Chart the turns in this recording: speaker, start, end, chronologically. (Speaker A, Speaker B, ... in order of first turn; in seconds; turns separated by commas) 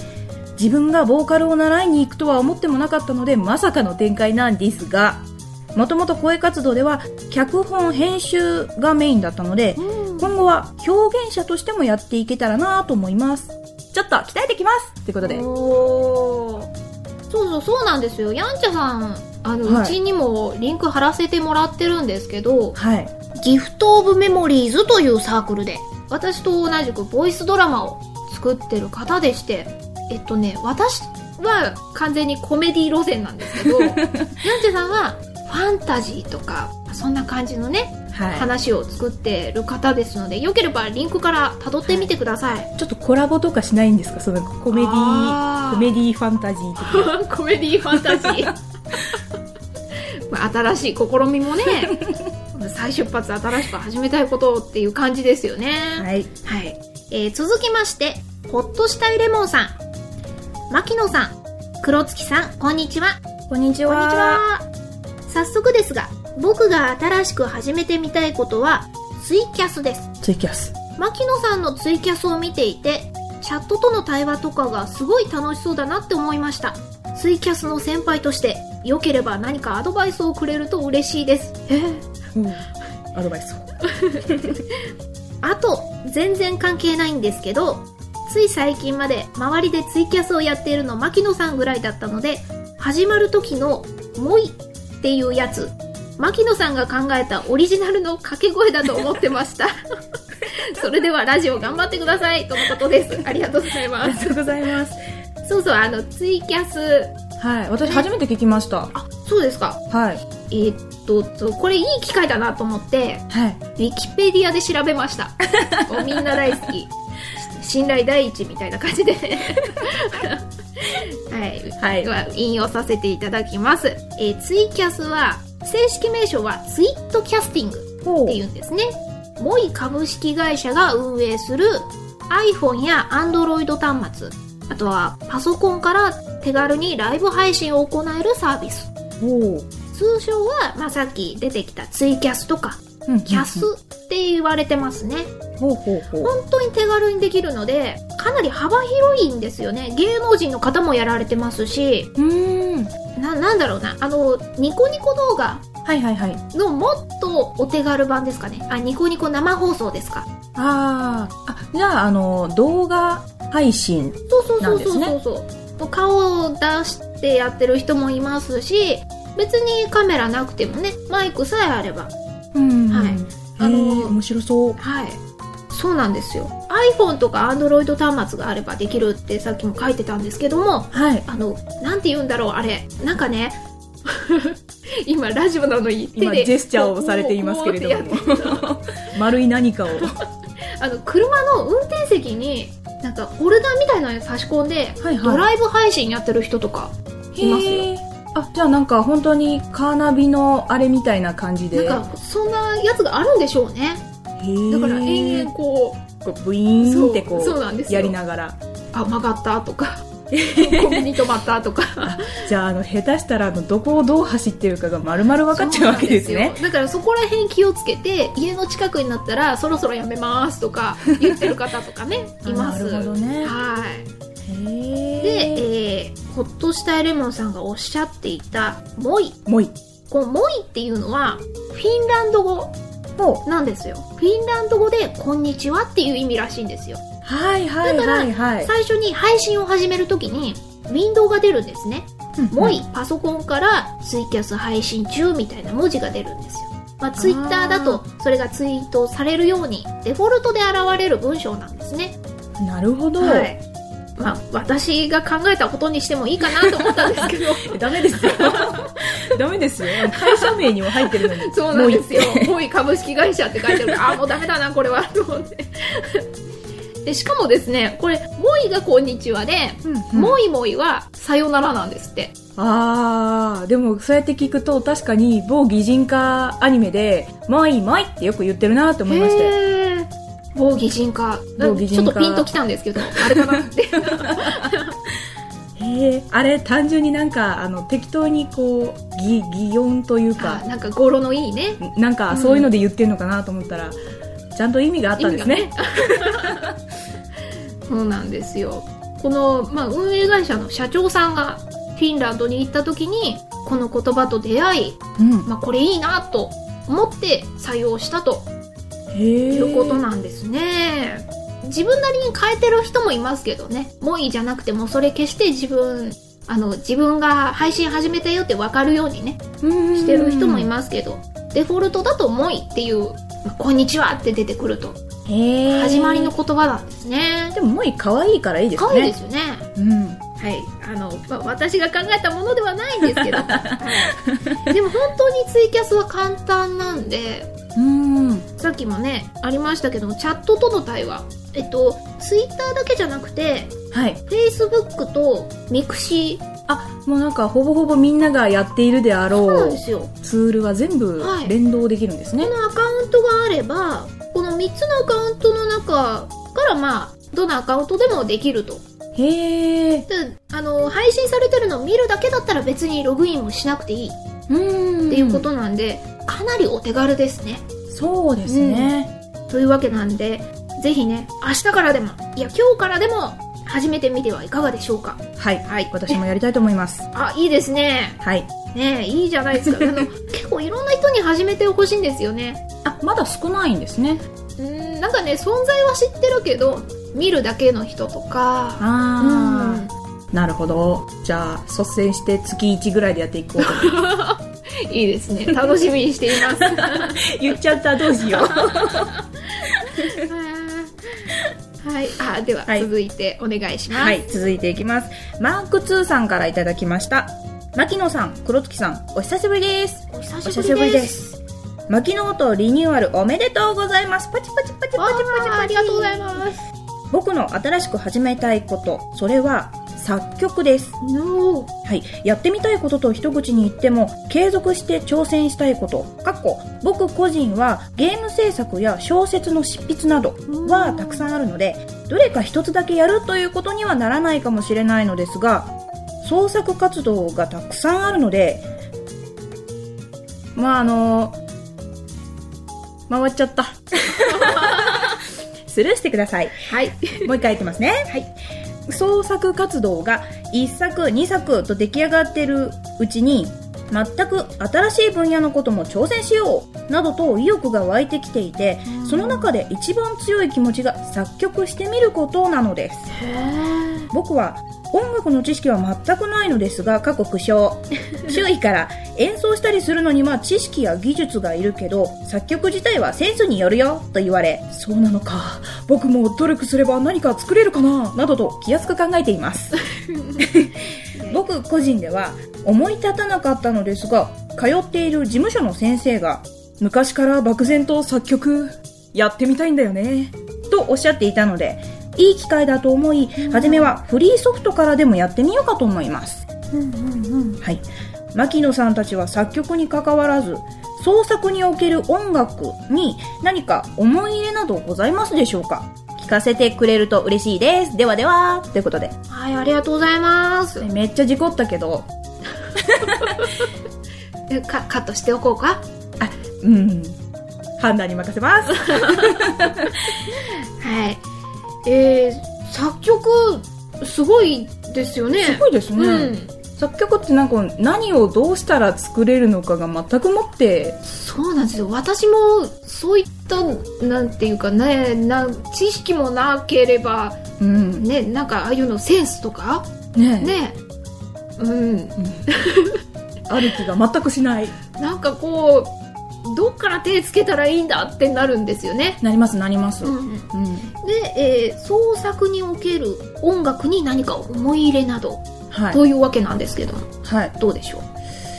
Speaker A: 0.6-15.4, Speaker B: 9.8-10.3, Speaker B: 15.2-16.7, Speaker B: 17.3-22.8, Speaker A: 19.6-19.9, Speaker A: 22.7-23.1, Speaker B: 23.4-42.7, Speaker A: 33.5-34.3, Speaker A: 38.1-38.5, Speaker A: 42.8-47.2, Speaker B: 44.7-45.9, Speaker B: 46.8-48.6, Speaker A: 47.9-48.5, Speaker B: 50.3-59.8, Speaker A: 56.0-56.3, Speaker B: 60.7-63.2, Speaker A: 63.5-64.4, Speaker B: 63.9-64.7, Speaker B: 65.3-70.1, Speaker A: 70.2-70.7, Speaker B: 71.0-82.0, Speaker A: 82.3-83.6, Speaker A: 84.2-84.6, Speaker B: 85.4-99.7, Speaker B: 100.5-104.5, Speaker A: 104.0-105.0, Speaker B: 105.4-107.1, Speaker A: 107.4-108.9, Speaker B: 108.9-109.8, Speaker A: 109.9-110.2, Speaker B: 110.5-113.2, Speaker A: 113.3-113.6, Speaker B: 113.8-138.9, Speaker A: 115.7-116.2, Speaker A: 121.8-122.1, Speaker A: 128.0-128.4, Speaker A: 139.2-139.7, Speaker B: 139.9-145.3, Speaker A: 143.1-143.7, Speaker A: 145.6-146.3, Speaker B: 146.2-152.1, Speaker A: 152.2-152.9, Speaker B: 153.1-155.7, Speaker A: 155.8-156.4, Speaker B: 156.5-160.2, Speaker A: 160.5-165.1, Speaker B: 164.3-172.1, Speaker A: 172.5-174.8, Speaker B: 172.9-174.2, Speaker B: 174.8-175.2, Speaker B: 175.7-188.7, Speaker A: 180.9-181.2, Speaker A: 186.1-190.1, Speaker B: 190.8-197.9, Speaker A: 195.0-195.5, Speaker A: 197.3-202.0, Speaker B: 201.7-204.0, Speaker A: 204.4-205.5, Speaker B: 204.7-206.0, Speaker A: 206.2-208.6, Speaker B: 206.8-208.2, Speaker B: 208.9-212.3, Speaker A: 210.3-211.0, Speaker A: 212.0-216.6, Speaker B: 215.5-224.1, Speaker A: 222.4-223.5, Speaker A: 224.4-225.6, Speaker B: 225.2-229.4, Speaker A: 229.4-229.7, Speaker B: 230.1-232.7, Speaker A: 233.2-233.4, Speaker B: 233.4-237.0, Speaker A: 237.2-238.7, Speaker B: 237.8-252.2, Speaker A: 242.4-242.8, Speaker A: 247.2-248.0, Speaker A: 252.6-253.5, Speaker B: 253.2-253.6, Speaker B: 254.2-258.9, Speaker A: 256.6-262.5, Speaker B: 259.9-266.2, Speaker A: 263.7-264.0, Speaker B: 267.0-272.3, Speaker A: 269.8-270.4, Speaker A: 272.6-279.5, Speaker B: 279.1-284.9, Speaker A: 281.6-282.5, Speaker A: 283.1-283.4, Speaker A: 284.4-284.7, Speaker A: 285.8-290.6, Speaker B: 290.4-292.7, Speaker A: 291.8-294.0, Speaker A: 294.5-296.5, Speaker B: 295.2-296.7, Speaker B: 297.9-308.5, Speaker A: 305.2-305.5, Speaker A: 309.1-310.0, Speaker B: 309.5-319.4, Speaker A: 319.6-320.7, Speaker B: 319.9-325.0, Speaker A: 325.2-326.3, Speaker B: 325.7-327.5, Speaker A: 327.5-329.1, Speaker B: 328.8-329.6, Speaker A: 329.8-330.2, Speaker B: 330.4-337.5, Speaker A: 333.1-334.5, Speaker A: 337.7-338.5, Speaker B: 338.6-343.7, Speaker A: 343.9-344.2, Speaker B: 344.3-346.4, Speaker A: 346.7-352.5, Speaker B: 349.3-350.1, Speaker B: 351.2-351.5, Speaker B: 352.4-358.8, Speaker A: 359.1-360.1, Speaker B: 360.1-364.2, Speaker A: 364.5-365.5, Speaker B: 365.1-367.6, Speaker A: 367.9-369.1, Speaker B: 368.4-368.9, Speaker B: 369.5-376.2, Speaker A: 375.4-377.1, Speaker B: 377.1-378.2, Speaker A: 378.2-378.5, Speaker B: 378.7-382.6, Speaker A: 379.6-380.1, Speaker A: 382.8-384.2, Speaker B: 384.6-389.9, Speaker A: 388.8-394.0, Speaker B: 393.6-397.2, Speaker A: 396.4-399.1, Speaker B: 398.2-404.2, Speaker A: 403.9-411.3, Speaker B: 410.1-411.3, Speaker A: 411.9-416.4, Speaker B: 414.9-416.6, Speaker A: 417.1-421.0, Speaker B: 421.0-421.7, Speaker A: 421.8-438.7, Speaker B: 430.5-431.3, Speaker A: 440.6-441.4, Speaker A: 443.1-445.1, Speaker B: 444.2-445.1, Speaker A: 445.7-446.7, Speaker B: 446.7-447.3, Speaker A: 447.2-448.2, Speaker A: 448.9-463.1, Speaker B: 458.9-459.5, Speaker B: 463.1-464.1, Speaker A: 464.1-479.8, Speaker B: 480.1-480.4, Speaker A: 480.4-496.4, Speaker B: 481.1-481.4, Speaker B: 493.4-493.9, Speaker B: 496.7-497.6, Speaker A: 498.3-509.1, Speaker B: 509.3-510.9, Speaker A: 510.8-512.1, Speaker A: 512.8-513.2, Speaker B: 513.0-513.5, Speaker B: 514.5-515.8, Speaker A: 516.2-517.2, Speaker A: 517.8-520.1, Speaker B: 518.9-519.3, Speaker B: 520.8-521.2, Speaker B: 521.8-526.5, Speaker A: 525.4-531.0, Speaker B: 531.0-537.4, Speaker A: 537.6-538.0, Speaker B: 538.0-539.9, Speaker A: 540.1-540.5, Speaker B: 540.4-540.8, Speaker B: 541.6-543.0, Speaker A: 542.2-542.4, Speaker A: 543.5-544.7, Speaker B: 545.0-549.2, Speaker A: 549.2-550.9, Speaker B: 550.0-558.0, Speaker A: 555.7-556.0, Speaker A: 557.2-557.5